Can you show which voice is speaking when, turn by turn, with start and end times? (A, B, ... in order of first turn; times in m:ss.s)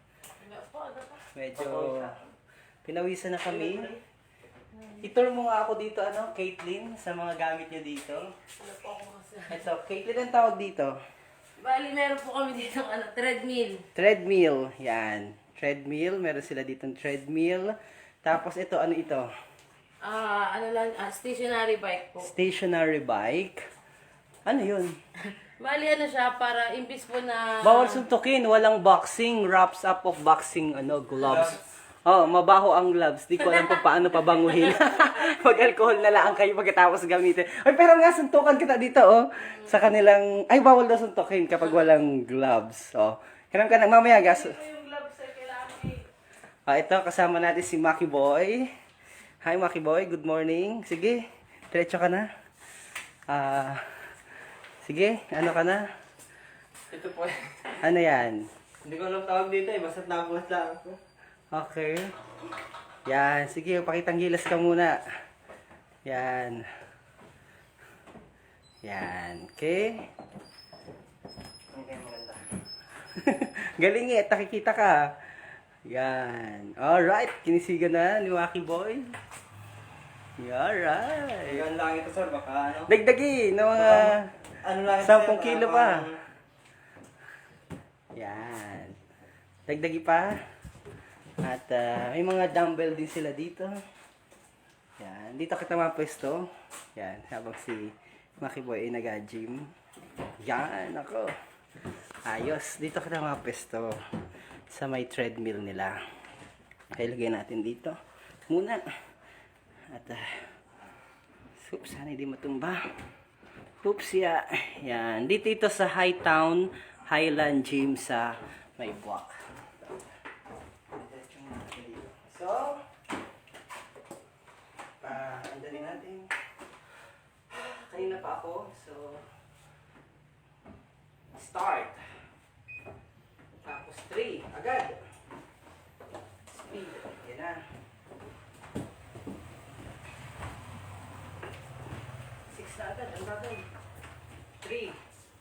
0:00.4-0:01.2 A
0:01.3-0:02.1 B
0:01.5-0:02.1 C
0:02.8-0:03.9 B
0:03.5-0:04.0 C
0:05.0-0:08.2 B
0:08.6-0:09.6 A
0:09.5-0:10.9 B
0:11.6-0:13.8 A
0:13.9-0:19.3 B
0:20.0-0:22.3 A
0:22.2-0:23.6 B
0:24.4-0:24.9 B
0:25.4-0:28.0 A
0:27.6-0:44.6 B
0:31.2-0:31.6 C
0:33.4-0:33.8 A
0:34.4-0:35.1 A
0:44.2-0:46.0 A
0:46.6-0:48.7 B
0:49.4-0:52.3 B
0:53.3-0:54.2 B
0:54.8-0:55.8 B
0:56.9-0:57.8 C
0:57.8-0:58.5 B
0:58.8-1:01.0 C
1:01.5-1:02.1 B
1:03.0-1:05.0 B
1:06.0-1:06.6 B
1:08.8-1:10.1 B
1:11.7-1:12.4 C
1:13.1-1:19.2 B
1:20.4-1:21.6 B
1:21.4-1:22.9 C
1:22.9-1:24.4 B
1:23.7-1:26.2 C
1:25.0-1:26.0 B
1:28.1-1:29.0 B
1:29.7-1:30.4 B
1:31.4-1:33.7 B
1:35.0-1:39.7 B
1:40.4-1:41.3 B
1:42.2-1:43.9 B
1:44.7-1:46.0 B
1:46.9-1:48.0 B
1:48.5-1:48.8 B
1:49.9-1:50.6 B
1:51.6-1:52.8 B
1:53.8-2:00.0 B
2:01.0-2:02.8 B
2:05.0-2:06.3 B
2:07.5-2:09.3 B
2:11.3-2:12.0 B
2:13.6-2:15.0 B
2:16.5-2:17.6 B
2:22.5-2:23.6 B
2:24.6-2:25.0 B